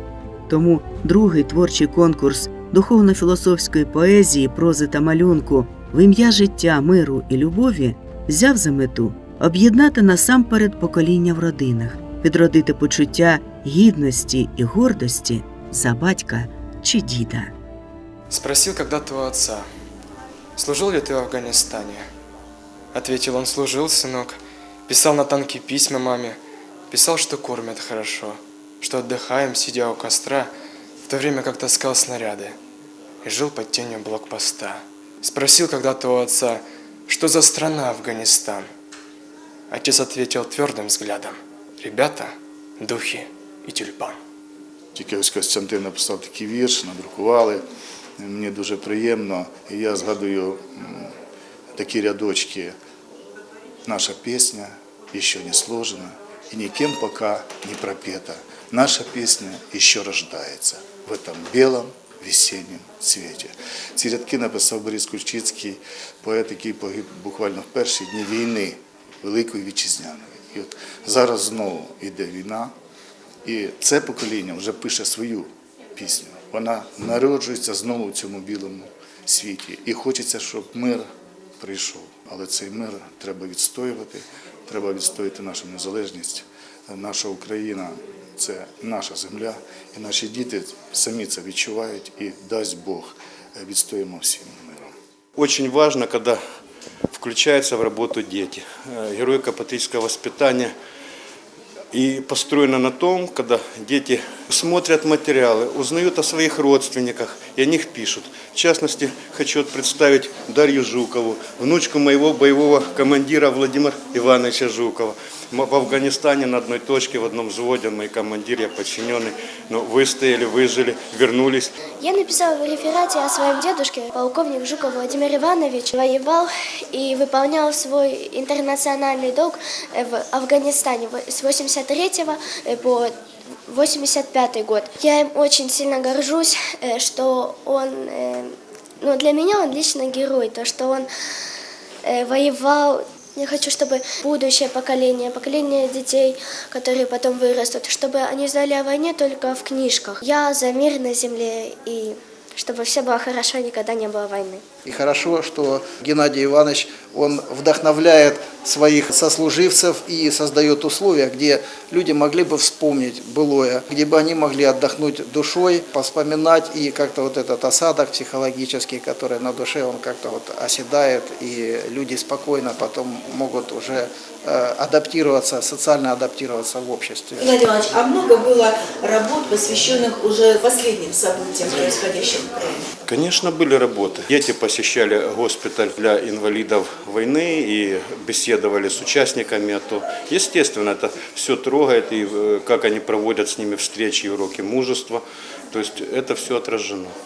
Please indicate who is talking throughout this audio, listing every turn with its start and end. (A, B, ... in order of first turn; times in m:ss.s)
0:00.5-0:17.5 A
0:18.3-0:19.7 B
0:20.6-0:22.1 B
0:22.9-0:30.5 B
0:31.0-0:32.6 B
0:33.2-0:38.7 B
0:39.7-0:44.2 B
0:45.0-0:47.6 C
0:48.2-0:51.1 C
0:51.8-0:52.8 C
0:53.8-1:12.7 C
1:13.4-1:21.0 C
1:21.6-1:34.9 C
1:35.4-1:36.4 D
1:37.1-1:40.7 D
1:41.9-2:01.7 D
2:02.0-2:13.2 E
2:13.7-2:21.1 E
2:22.0-2:34.6 E
2:34.8-2:57.4 F
2:57.4-3:02.8 G
3:03.1-3:17.1 D